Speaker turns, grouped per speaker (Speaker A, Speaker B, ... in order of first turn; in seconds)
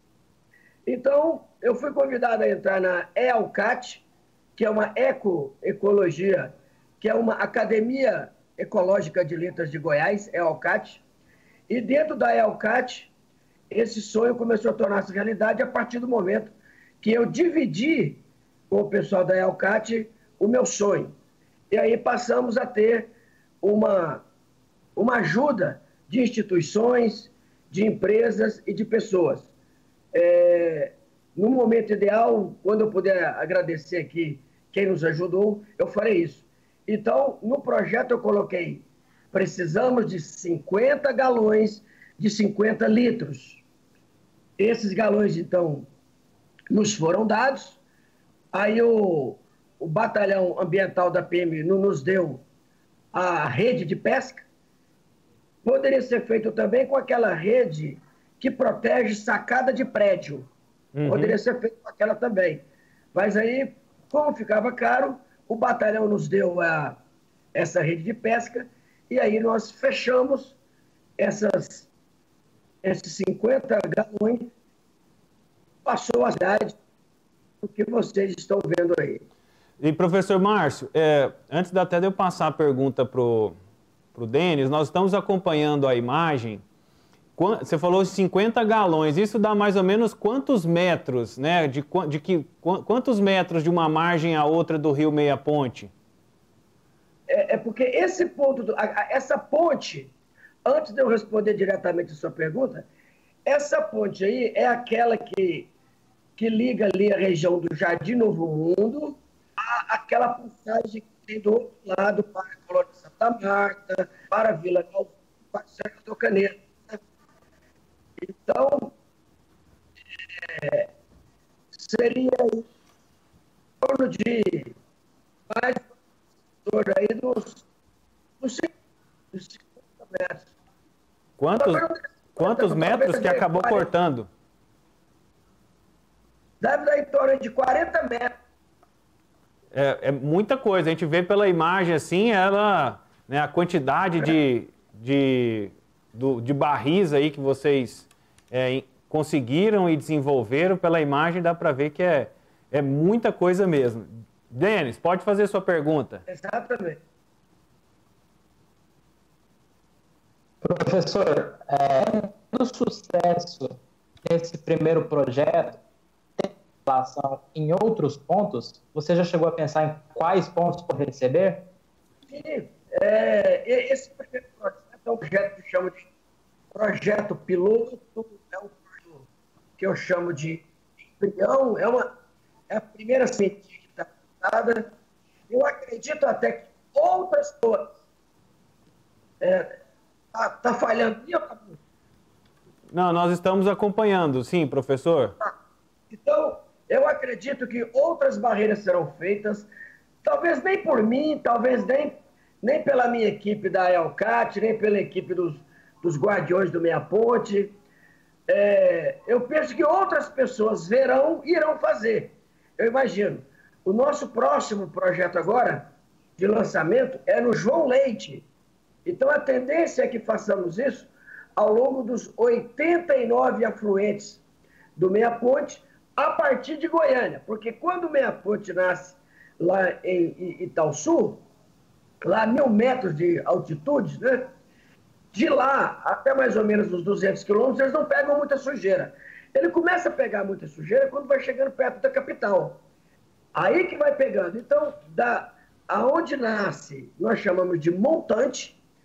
Speaker A: 0.9-11.0, 11.7-13.1, 13.7-21.1, 21.7-24.2, 25.0-29.5, 30.1-43.6, 44.6-45.9, 46.7-47.8, 48.5-52.4, 53.1-54.5, 55.6-60.5, 61.0-67.0, 67.5-70.6, 71.2-71.9, 72.8-74.4, 75.8-76.8, 77.6-79.2, 97.3-100.1, 100.7-102.9, 103.5-105.7, 106.4-117.0, 118.2-118.9, 120.3-120.9, 121.7-122.7, 123.8-124.7, 125.5-125.9, 126.7-127.7, 128.4-128.7, 129.3-130.5, 131.6-133.9, 136.6-138.3, 156.3-157.0, 172.3-176.1, 176.7-179.3, 179.8-180.7, 181.2-182.1, 182.7-184.9, 185.5-187.9, 189.4-189.7, 190.3-191.8, 196.1-199.7, 200.2-207.8, 208.5-215.8, 216.4-218.5, 219.1-224.4, 225.0-231.4, 232.3-234.5, 235.3-242.8, 243.6-248.8
Speaker B: 60.9-61.4, 79.8-83.5, 84.2-86.6, 87.4-95.9, 131.4-131.8, 132.4-134.3, 139.7-156.2, 192.9-195.4
Speaker C: 160.6-165.8, 166.4-171.6